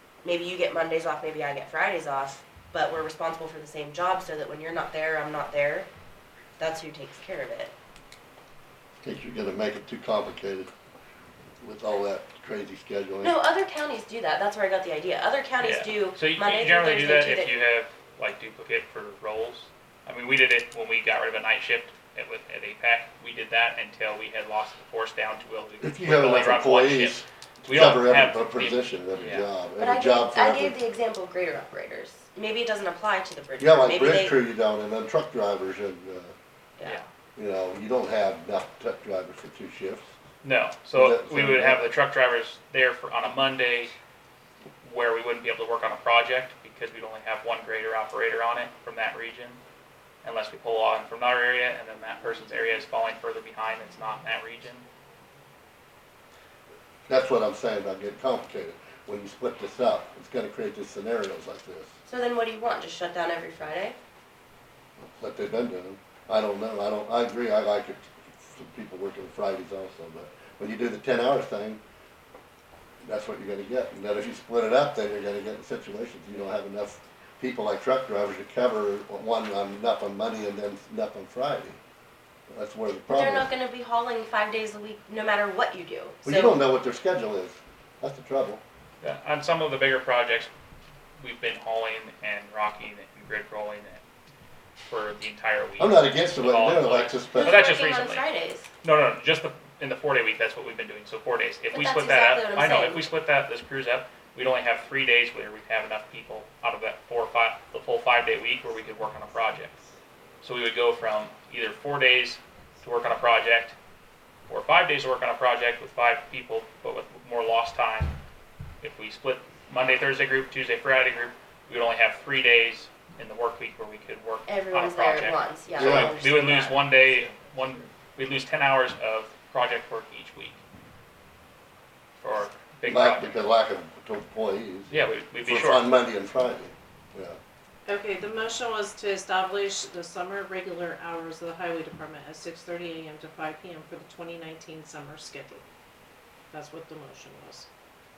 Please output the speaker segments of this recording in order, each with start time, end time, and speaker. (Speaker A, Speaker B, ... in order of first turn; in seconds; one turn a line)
Speaker A: 0.2-5.9
Speaker A: 6.6-7.7
Speaker B: 9.0-10.7
Speaker B: 11.6-13.3
Speaker A: 13.2-17.5
Speaker C: 15.6-29.5
Speaker B: 25.8-30.8
Speaker A: 29.8-34.4
Speaker B: 33.6-36.3
Speaker B: 37.4-40.1
Speaker C: 40.4-43.9
Speaker B: 40.9-41.9
Speaker C: 44.8-49.6
Speaker C: 50.2-54.9
Speaker B: 57.1-61.9
Speaker A: 62.1-64.0
Speaker B: 65.0-71.8
Speaker B: 73.0-81.8
Speaker B: 82.5-83.5
Speaker A: 83.1-86.6
Speaker B: 86.2-88.6
Speaker C: 89.0-90.5
Speaker C: 91.2-94.0
Speaker C: 94.9-98.2
Speaker B: 95.8-97.6
Speaker A: 97.3-98.7
Speaker C: 98.8-109.7
Speaker A: 101.7-103.1
Speaker C: 110.4-113.8
Speaker C: 114.5-118.2
Speaker C: 118.8-130.6
Speaker A: 124.5-126.8
Speaker B: 125.8-126.2
Speaker C: 132.2-133.4
Speaker B: 132.9-137.4
Speaker C: 134.9-135.9
Speaker D: 137.9-145.7
Speaker D: 146.5-147.7